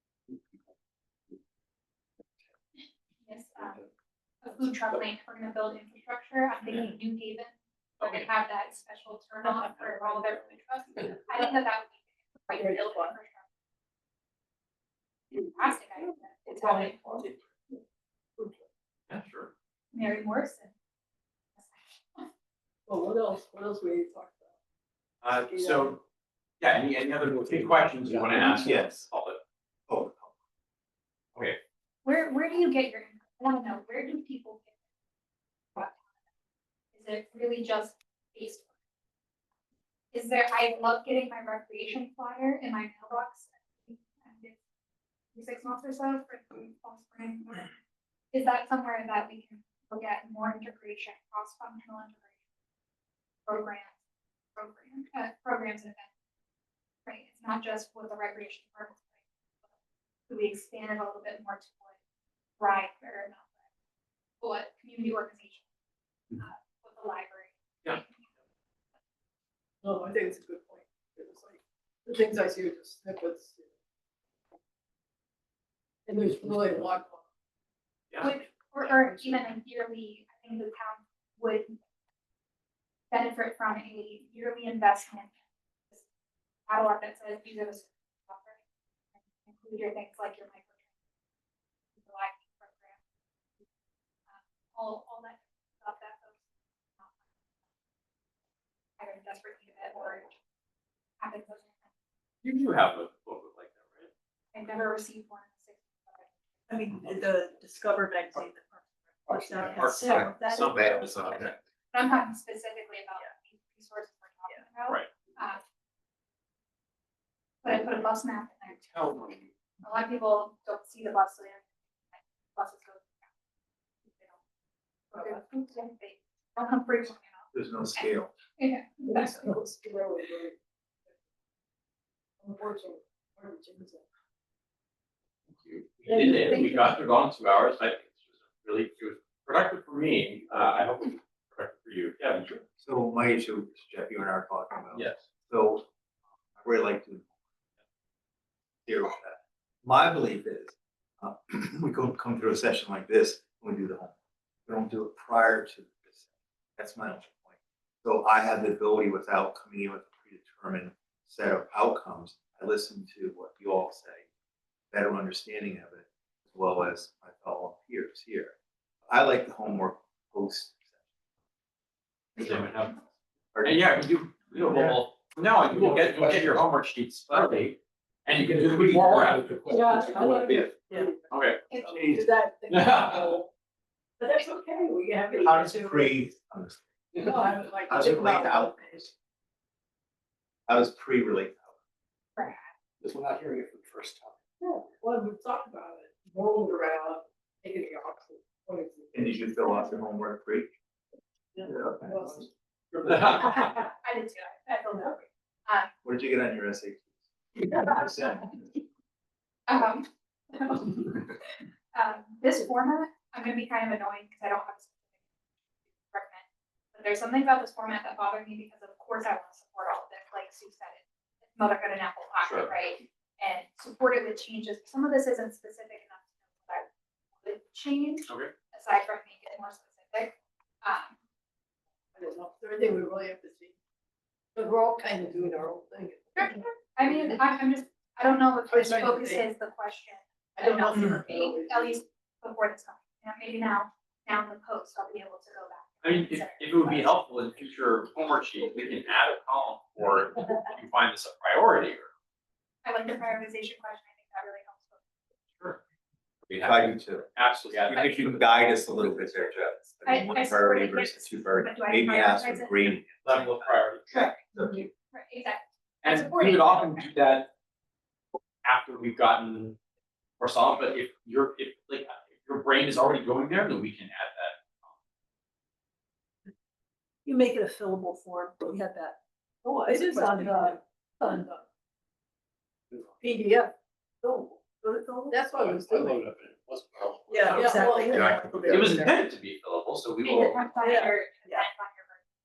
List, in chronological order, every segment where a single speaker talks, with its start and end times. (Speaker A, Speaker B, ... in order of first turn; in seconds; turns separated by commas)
Speaker A: 3.2-3.8, Speaker A: 4.4-13.4, Speaker B: 8.0-8.3, Speaker C: 12.5-13.1, Speaker A: 15.3-17.3, Speaker C: 16.6-17.2, Speaker B: 19.1-19.5, Speaker A: 19.9-20.7, Speaker A: 21.6-22.3, Speaker C: 22.9-24.5, Speaker B: 25.2-26.0, Speaker C: 25.5-25.9, Speaker B: 26.6-29.4, Speaker D: 27.3-28.7, Speaker E: 28.6-29.1, Speaker E: 29.9-30.3, Speaker A: 32.0-34.7, Speaker A: 35.7-36.0, Speaker A: 36.9-38.7, Speaker A: 40.1-44.6, Speaker A: 45.3-47.7, Speaker A: 48.3-52.3, Speaker A: 53.5-54.0, Speaker A: 54.5-56.1, Speaker A: 57.0-59.2, Speaker A: 60.3-62.0, Speaker A: 62.6-63.5, Speaker A: 64.4-65.7, Speaker A: 66.3-68.3, Speaker C: 69.8-73.7, Speaker C: 76.1-77.2, Speaker A: 78.2-81.8, Speaker A: 83.1-85.3, Speaker A: 86.7-88.6, Speaker A: 89.3-90.9, Speaker A: 92.0-93.0, Speaker A: 94.3-96.4, Speaker A: 99.0-100.3, Speaker A: 101.2-101.8, Speaker B: 102.4-104.1, Speaker A: 104.5-106.3, Speaker F: 106.7-111.4, Speaker D: 109.3-110.0, Speaker B: 109.3-111.5, Speaker D: 110.5-111.5, Speaker A: 111.9-115.6, Speaker A: 117.6-119.2, Speaker B: 118.9-119.4, Speaker A: 119.8-123.2, Speaker A: 125.1-127.4, Speaker E: 127.5-128.3, Speaker A: 128.0-129.7, Speaker C: 129.1-130.6, Speaker C: 132.4-134.1, Speaker B: 135.6-142.6, Speaker C: 136.1-136.8, Speaker A: 136.5-136.8, Speaker E: 142.8-145.9, Speaker B: 144.9-145.2, Speaker E: 146.6-147.3, Speaker E: 148.9-154.2, Speaker E: 154.7-156.2, Speaker E: 156.8-164.2, Speaker E: 164.9-168.6, Speaker E: 169.1-170.8, Speaker B: 172.4-172.9, Speaker E: 173.5-173.9, Speaker B: 173.7-179.7, Speaker E: 174.6-175.0, Speaker D: 175.7-176.5, Speaker D: 178.7-180.7, Speaker C: 179.7-181.2, Speaker F: 180.9-181.2, Speaker B: 181.3-181.6, Speaker C: 181.7-183.5, Speaker E: 181.8-182.3, Speaker B: 182.7-183.4, Speaker C: 184.2-186.0, Speaker F: 185.2-185.6, Speaker E: 185.4-187.3, Speaker C: 187.2-189.0, Speaker E: 187.9-189.1, Speaker E: 190.7-191.7, Speaker D: 193.0-194.4, Speaker C: 194.6-199.4, Speaker E: 199.1-200.7, Speaker C: 201.6-202.5, Speaker E: 201.7-202.4, Speaker B: 202.9-203.8, Speaker A: 203.2-205.9, Speaker E: 206.0-208.7, Speaker C: 207.6-208.1, Speaker A: 209.7-211.2, Speaker A: 211.9-215.0, Speaker A: 216.0-226.9, Speaker B: 222.4-222.7, Speaker A: 227.4-231.2, Speaker B: 228.3-228.5, Speaker C: 232.2-233.7, Speaker C: 234.6-236.5, Speaker A: 236.4-247.1, Speaker C: 238.7-239.4, Speaker C: 240.6-241.9, Speaker B: 246.0-252.1, Speaker A: 252.8-255.0, Speaker B: 256.4-258.5, Speaker E: 256.6-264.9, Speaker B: 259.1-259.7, Speaker A: 260.1-263.0, Speaker B: 263.2-264.1, Speaker A: 264.1-264.4, Speaker A: 265.1-267.1, Speaker B: 266.0-267.5, Speaker B: 268.6-269.8, Speaker B: 270.4-274.9, Speaker F: 277.3-280.8, Speaker C: 279.9-281.6, Speaker C: 283.2-286.2, Speaker F: 284.9-285.4, Speaker D: 285.6-289.0, Speaker F: 287.3-288.7, Speaker C: 287.4-289.1, Speaker B: 288.7-291.0, Speaker A: 290.2-292.2, Speaker F: 290.8-291.6